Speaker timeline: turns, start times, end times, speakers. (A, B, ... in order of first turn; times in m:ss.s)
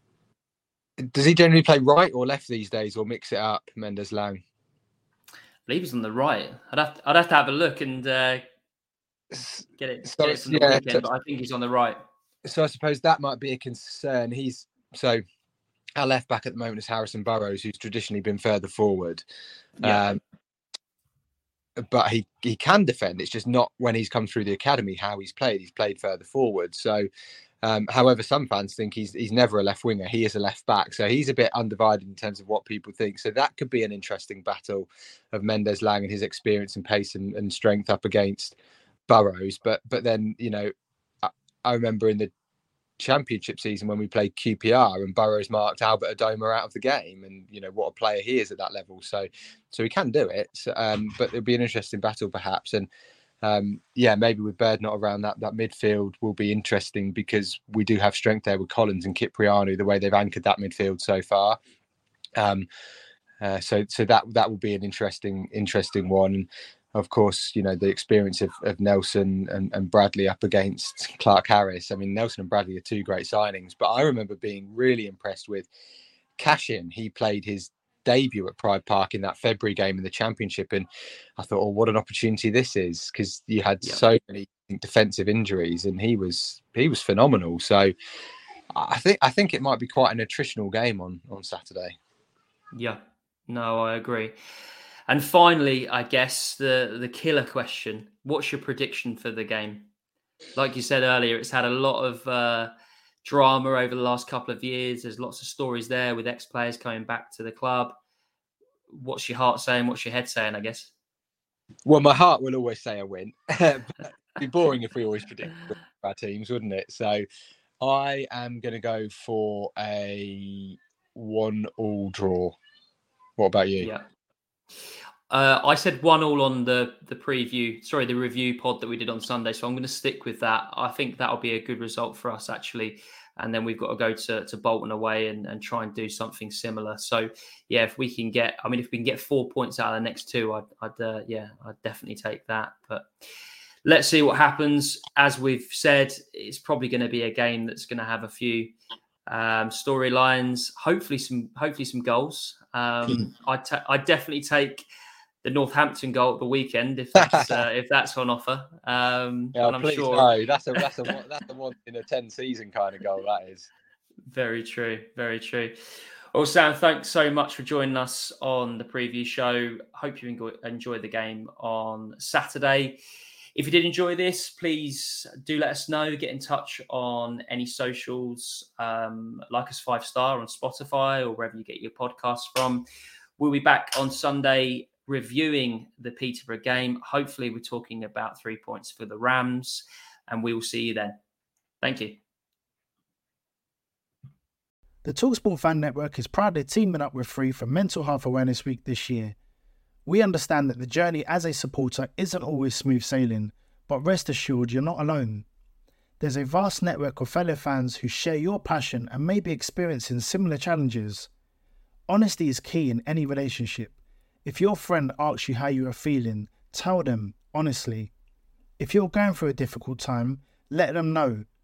0:01.1-0:04.4 A
0:05.7-0:08.4 B
0:09.3-0:11.1 A
0:09.8-0:12.0 B
0:12.4-0:15.2 A
0:16.0-0:19.2 A
0:19.8-0:20.2 A
0:21.8-0:27.1 A
0:27.6-0:38.6 A
0:39.1-0:40.7 A
0:41.2-0:42.3 A
0:43.0-0:52.9 A
0:53.4-1:01.6 A
1:02.4-1:02.7 A
1:03.4-1:15.7 A
1:16.4-1:20.9 A
1:21.4-1:27.9 A
1:28.7-1:32.0 A
1:32.8-1:34.4 B
1:35.1-1:39.9 B
1:40.6-1:42.7 B
1:43.2-1:48.0 B
1:48.9-1:50.9 B
1:51.8-1:57.2 A
1:57.8-2:02.6 A
2:03.4-2:03.9 A
2:03.8-2:04.0 B
2:05.3-2:23.1 B
2:23.8-2:28.7 B
2:29.3-2:34.8 B
2:35.4-2:40.3 B
2:37.2-2:37.6 A
2:39.6-2:43.7 A
2:44.3-2:45.8 B
2:46.3-2:53.0 B
2:53.6-3:02.9 B
3:03.4-3:11.2 B
3:11.8-3:12.2 B
3:15.0-3:19.4 C
3:20.1-3:25.5 C
3:26.2-3:31.3 C
3:32.1-3:33.9 C
3:34.4-3:38.1 C
3:38.8-3:41.5 C